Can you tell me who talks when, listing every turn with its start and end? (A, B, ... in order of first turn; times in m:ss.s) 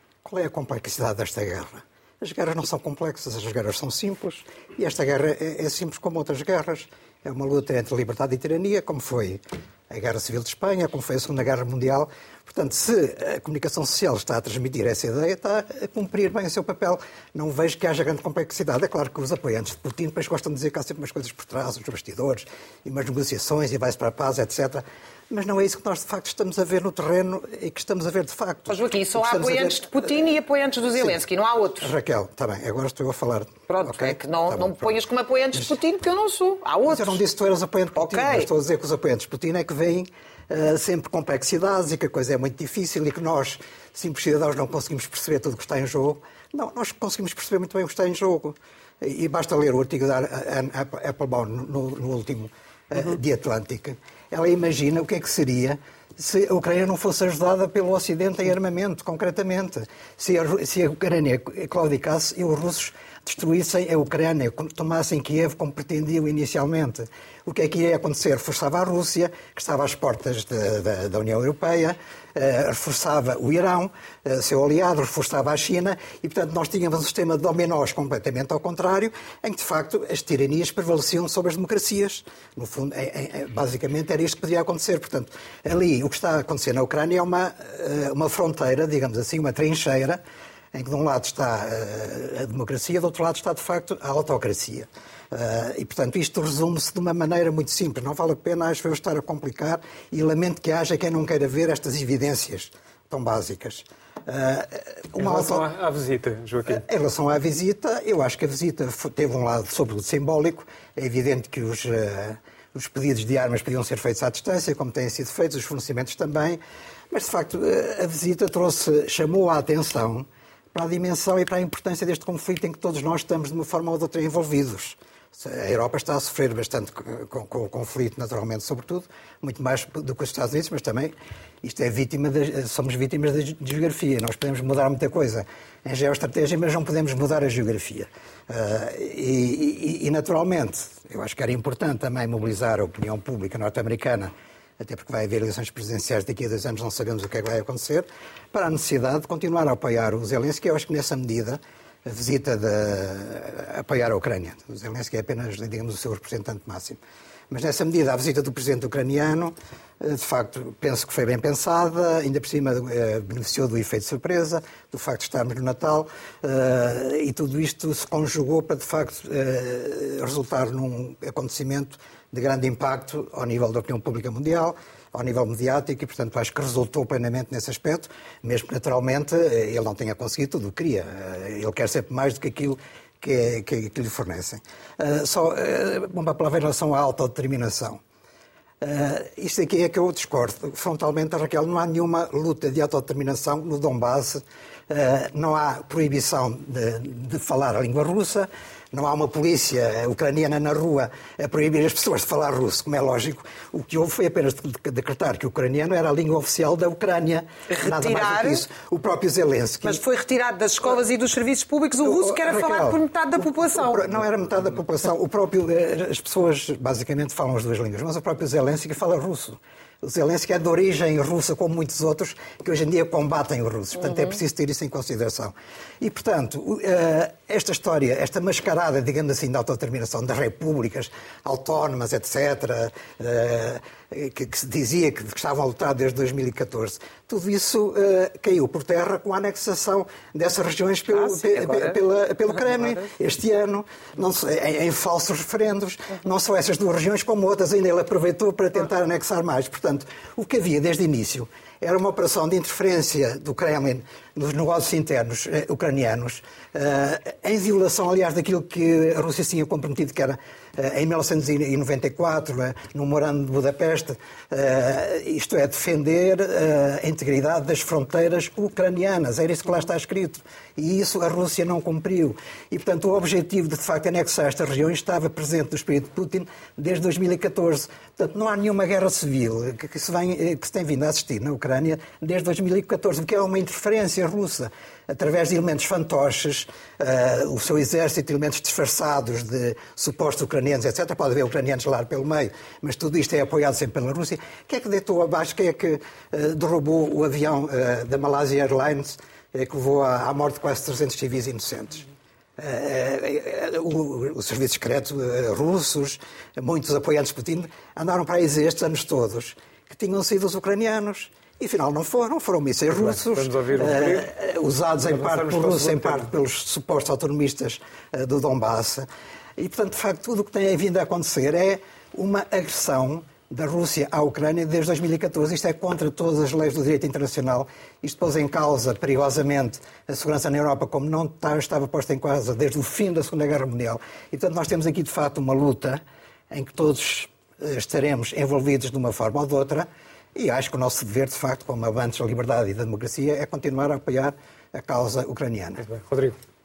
0:00.2-0:29.8 A
0:28.7-0:31.9 B
0:31.8-0:34.9 A
0:33.7-0:37.2 B
0:36.9-1:30.2 A
0:38.0-0:38.5 B
1:30.7-1:45.6 A
1:45.1-1:46.8 C
1:46.6-1:56.6 A
1:57.1-2:37.0 A
2:37.5-3:08.0 A
3:08.8-3:30.0 A
3:27.7-3:28.6 B
3:29.8-3:34.1 B
3:32.0-5:19.0 A
5:12.9-5:14.3 C
5:15.1-5:16.3 C
5:19.6-5:45.8 A
5:45.8-5:46.4 C